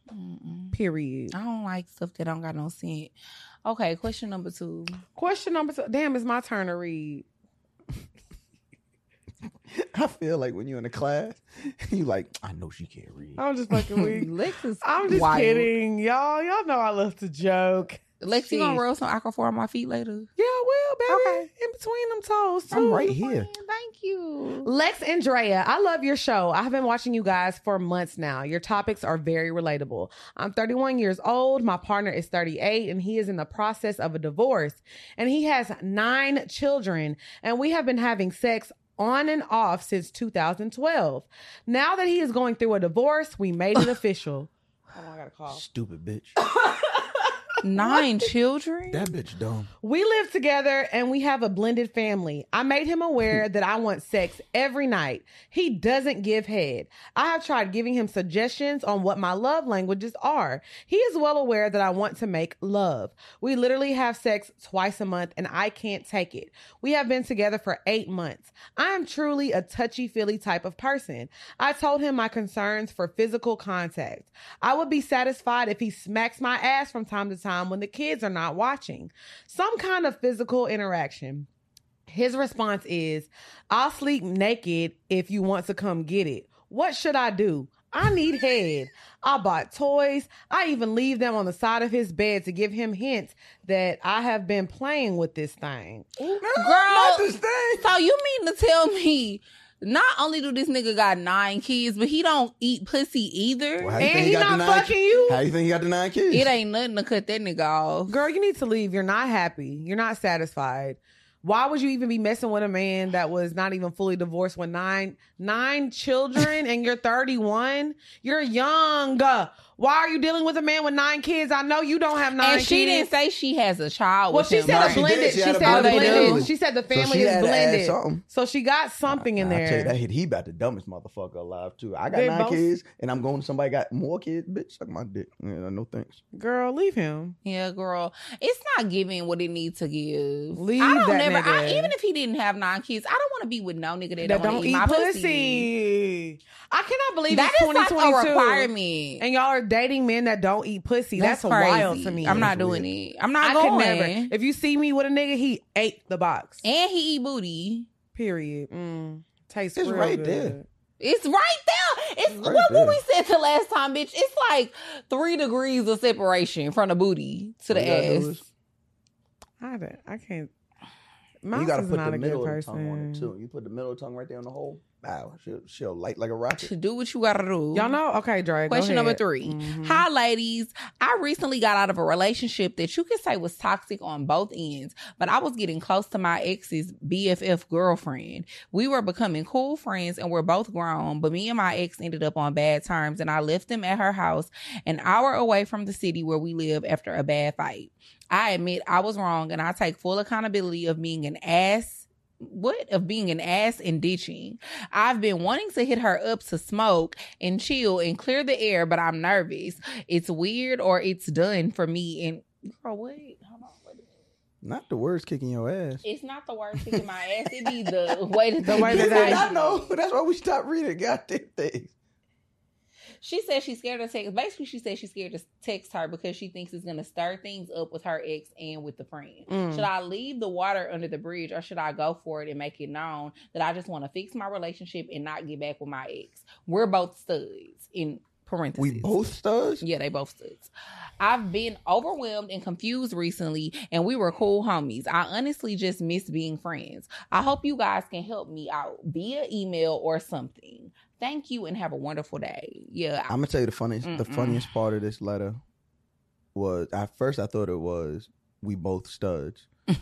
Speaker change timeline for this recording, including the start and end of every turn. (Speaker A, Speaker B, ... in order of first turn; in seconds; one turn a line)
Speaker A: 0.1-0.8
Speaker B: 0.7-1.3
Speaker A: 1.3-3.1
Speaker A: 3.6-5.0
Speaker B: 5.2-7.3
Speaker C: 9.7-13.4
Speaker B: 13.4-18.8
Speaker A: 14.0-15.7
Speaker A: 18.2-20.3
Speaker B: 20.4-23.1
Speaker A: 21.1-21.4
Speaker C: 22.7-23.5
Speaker A: 22.7-24.7
Speaker B: 24.6-45.6
Speaker C: 45.5-46.4
Speaker B: 46.6-47.2
Speaker A: 47.6-49.1
Speaker C: 48.9-49.7
Speaker B: 49.8-81.5
Speaker B: 82.1-96.4
Speaker C: 96.4-97.9
Speaker A: 96.5-104.2
Speaker C: 103.8-106.5
Speaker B: 104.0-105.4
Speaker A: 106.3-108.2
Speaker B: 108.1-123.1
Speaker A: 122.4-126.5
Speaker B: 124.3-129.9
Speaker C: 124.6-128.2
Speaker C: 129.1-136.2
Speaker B: 132.1-132.7
Speaker B: 136.3-137.4
Speaker A: 137.4-145.7
Speaker B: 140.6-141.9
Speaker B: 144.2-148.7
Speaker A: 147.3-149.2
Speaker B: 149.2-152.5
Speaker A: 151.2-154.3
Speaker C: 152.2-152.9
Speaker B: 153.4-156.6
Speaker A: 156.6-157.9
Speaker B: 158.2-160.7
Speaker C: 159.8-160.6
Speaker A: 161.0-168.4
Speaker C: 162.3-163.0
Speaker C: 167.7-168.4
Speaker B: 169.6-170.5
Speaker B: 171.4-173.3
Speaker C: 171.5-176.7
Speaker A: 176.6-178.0
Speaker B: 177.7-180.1
Speaker A: 178.7-214.1
Speaker C: 214.6-216.0
Speaker A: 216.0-219.9
Speaker C: 216.8-218.1
Speaker B: 218.6-219.5
Speaker C: 218.8-221.9
Speaker A: 223.2-239.2
Speaker B: 229.5-229.9
Speaker C: 238.8-239.8
Speaker A: 239.8-253.3
Speaker C: 253.3-255.6
Speaker A: 254.0-254.7
Speaker C: 256.6-259.7